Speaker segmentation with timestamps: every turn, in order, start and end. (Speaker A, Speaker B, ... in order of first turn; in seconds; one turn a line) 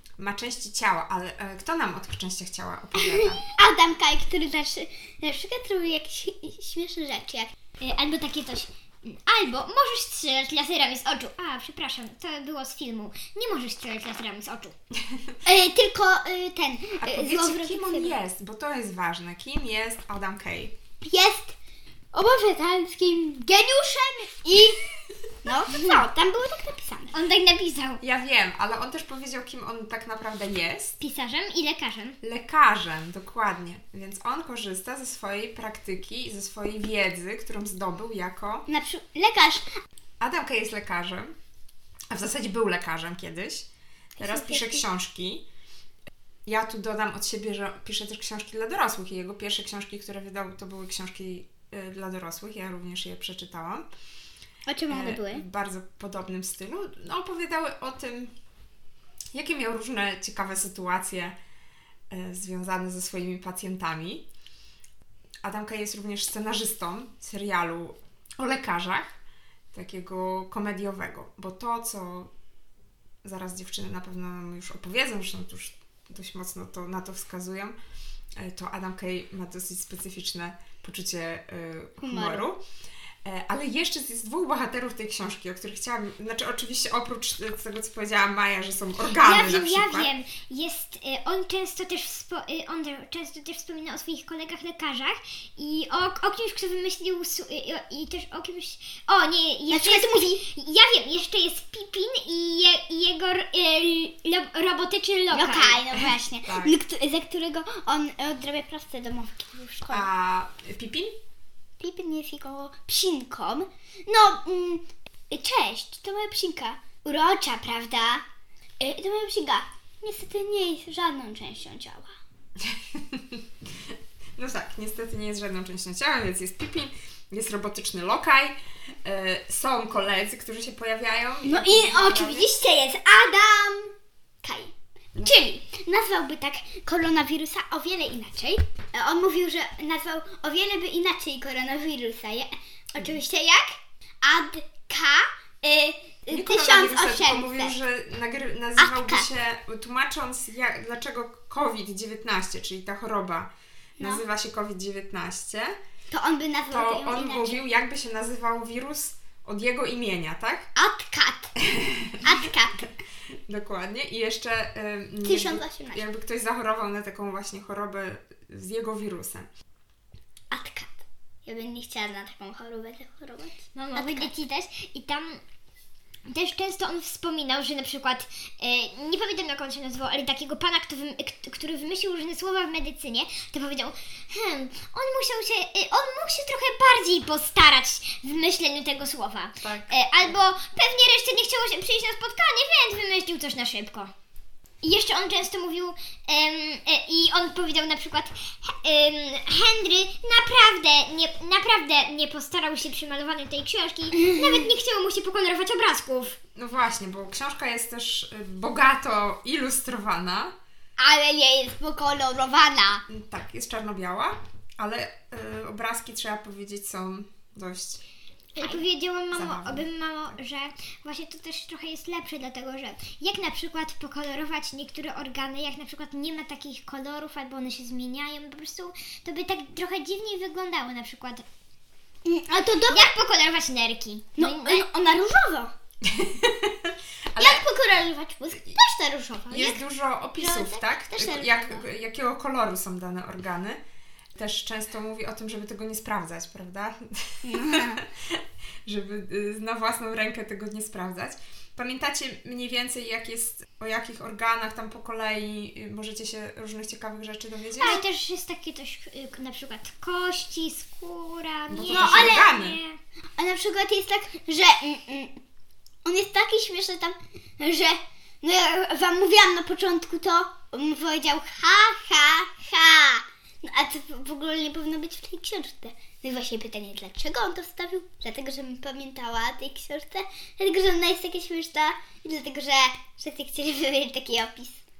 Speaker A: 0.2-3.4
Speaker B: 3.2-7.5
Speaker C: 7.8-14.7
Speaker B: 15.4-18.2
Speaker A: 17.0-20.7
Speaker B: 21.0-21.5
Speaker B: 22.1-24.8
Speaker B: 25.4-27.2
Speaker C: 25.7-26.0
Speaker C: 27.1-28.0
Speaker A: 28.0-31.0
Speaker C: 31.0-32.2
Speaker A: 32.2-38.6
Speaker B: 38.7-39.6
Speaker A: 40.2-41.3
Speaker A: 42.1-43.7
Speaker B: 44.1-44.8
Speaker A: 44.2-45.4
Speaker A: 46.5-53.8
Speaker B: 54.7-55.4
Speaker A: 54.9-58.3
Speaker A: 59.3-61.3
Speaker A: 62.1-64.2
Speaker A: 65.4-69.2
Speaker A: 69.7-72.3
Speaker A: 73.2-77.8
Speaker A: 78.4-82.6
Speaker B: 82.0-82.5
Speaker A: 83.2-90.1
Speaker C: 89.2-106.0
Speaker B: 99.7-100.4
Speaker B: 105.3-110.1
Speaker A: 106.4-106.8
Speaker A: 109.9-111.1
Speaker B: 111.8-118.2
Speaker B: 118.8-122.1
Speaker A: 122.6-123.4
Speaker A: 124.4-132.5
Speaker B: 131.4-147.8
Speaker A: 146.3-155.8
Speaker B: 148.8-149.3
Speaker B: 154.0-154.2
Speaker B: 156.1-157.6
Speaker A: 156.7-160.7
Speaker B: 160.8-161.5
Speaker A: 161.7-162.2
Speaker B: 162.2-162.8
Speaker A: 163.5-169.5
Speaker B: 165.2-166.0
Speaker B: 170.5-174.3
Speaker C: 173.8-175.4
Speaker C: 176.2-194.1
Speaker A: 189.6-190.4
Speaker C: 194.8-206.4
Speaker B: 204.2-204.7
Speaker A: 206.6-210.5
Speaker B: 211.0-213.0
Speaker A: 213.1-218.0
Speaker C: 218.6-231.4
Speaker A: 219.3-220.4
Speaker B: 232.2-233.1
Speaker C: 232.9-234.8
Speaker B: 234.4-235.7
Speaker A: 236.0-237.6
Speaker B: 237.4-239.8
Speaker A: 239.5-243.8
Speaker B: 240.4-241.8
Speaker A: 244.3-258.0
Speaker B: 247.4-248.0
Speaker C: 257.8-263.0
Speaker A: 261.7-262.8
Speaker B: 261.9-262.5
Speaker B: 263.4-265.4
Speaker B: 266.0-284.8